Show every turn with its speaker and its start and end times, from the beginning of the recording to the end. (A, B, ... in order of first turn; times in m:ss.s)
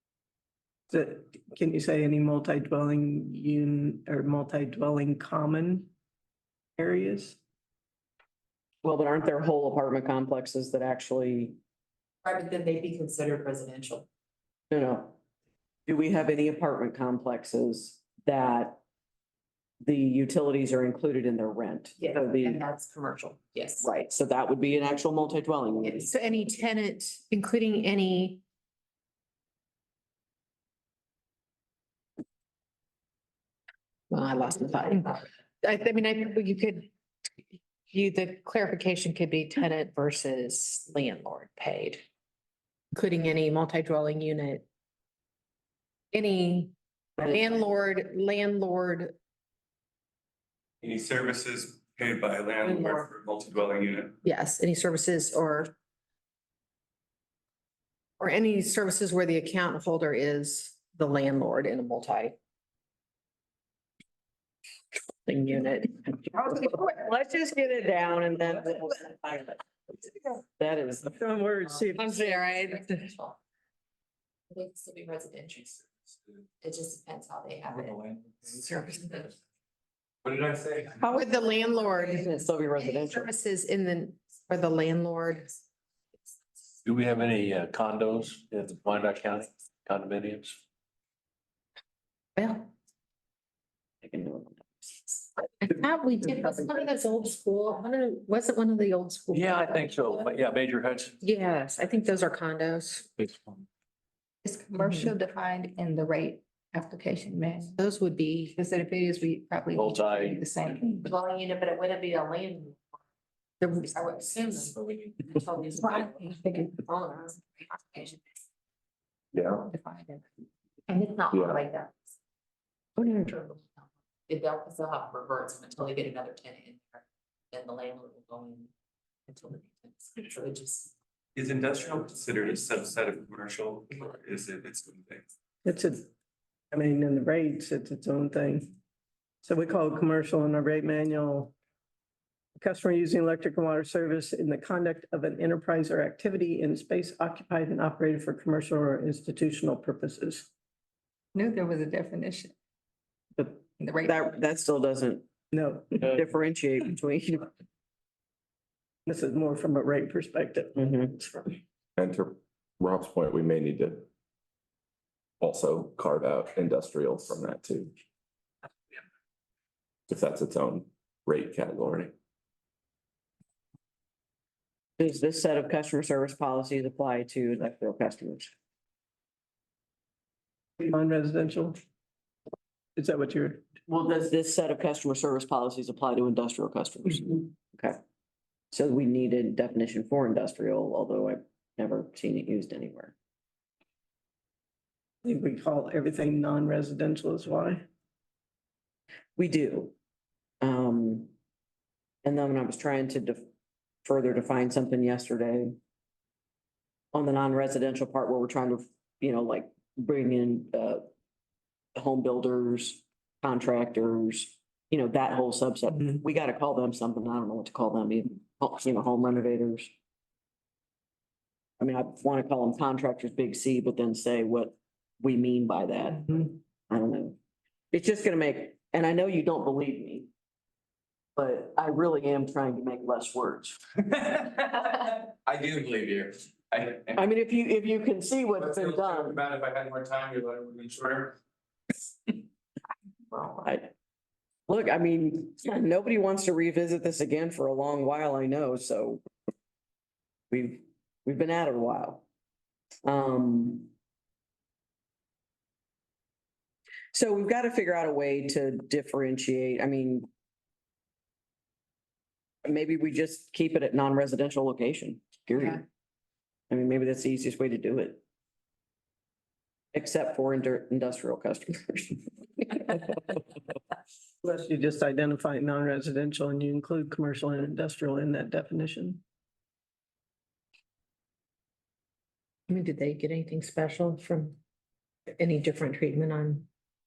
0:00.9-0:05.9 A
0:06.8-0:07.4 A
0:08.8-0:11.6 B
0:12.2-0:14.0 C
0:14.7-0:15.2 B
0:15.9-0:18.8 B
0:19.8-0:22.6 B
0:22.0-0:23.8 C
0:23.8-0:26.1 B
0:26.0-0:28.4 D
0:34.1-0:36.9 D
0:37.9-0:42.0 D
0:42.9-0:44.6 D
0:46.1-0:46.7 D
0:47.2-0:49.1 D
0:50.8-0:54.2 E
0:54.2-0:55.7 D
0:58.2-1:02.3 D
1:05.3-1:05.9 D
1:06.4-1:09.6 B
1:10.6-1:11.2 B
1:11.2-1:12.2 A
1:11.9-1:13.4 C
1:12.0-1:13.0 D
1:14.5-1:15.8 C
1:16.6-1:18.0 C
1:17.8-1:18.5 E
1:18.7-1:19.0 D
1:20.2-1:21.1 E
1:21.0-1:25.5 D
1:22.0-1:23.3 B
1:26.8-1:30.6 F
1:32.4-1:32.7 D
1:34.0-1:35.0 B
1:35.6-1:40.0 D
1:39.3-1:41.2 F
1:41.2-1:43.1 D
1:44.4-1:47.8 G
1:44.8-1:45.1 D
1:47.8-1:48.6 D
1:48.6-1:51.1 G
1:49.7-1:50.4 F
1:51.0-1:52.8 C
1:51.3-1:51.8 D
1:53.6-1:54.0 D
1:53.9-1:56.3 C
1:55.8-1:56.5 G
1:56.8-1:58.1 C
1:57.0-1:57.3 D
1:59.3-1:59.6 H
1:59.6-2:00.2 G
2:00.9-2:01.9 C
2:01.3-2:01.6 H
2:03.0-2:03.3 B
2:03.3-2:08.7 C
2:09.3-2:10.9 C
2:11.4-2:15.2 E
2:15.6-2:16.1 A
2:16.7-2:18.8 A
2:19.4-2:21.5 A
2:22.6-2:30.5 A
2:31.3-2:32.5 G
2:33.4-2:35.3 B
2:33.8-2:34.2 G
2:35.5-2:36.2 A
2:36.0-2:37.5 B
2:39.0-2:40.9 A
2:40.8-2:41.2 B
2:42.0-2:44.1 H
2:45.4-2:47.9 H
2:50.1-2:52.1 H
2:55.0-2:58.5 B
3:00.8-3:01.8 A
3:03.0-3:03.7 A
3:03.9-3:08.0 B
3:08.7-3:13.1 B
3:15.2-3:17.9 A
3:19.4-3:19.9 B
3:20.6-3:21.3 B
3:22.2-3:23.4 B
3:24.0-3:25.8 B
3:27.1-3:31.1 B
3:31.9-3:39.9 B
3:41.8-3:47.4 B
3:47.9-3:50.3 B
3:51.4-3:53.8 B
3:54.8-3:57.2 E
3:57.2-3:59.4 B
3:58.6-4:01.4 E
4:03.4-4:03.9 B
4:04.7-4:09.2 B
4:10.5-4:12.2 B
4:13.0-4:13.9 B
4:17.1-4:20.3 B
4:22.6-4:25.8 B
4:26.7-4:28.2 B
4:29.9-4:33.0 B
4:34.4-4:39.2 A
4:42.7-4:44.6 D
4:45.4-4:46.7 D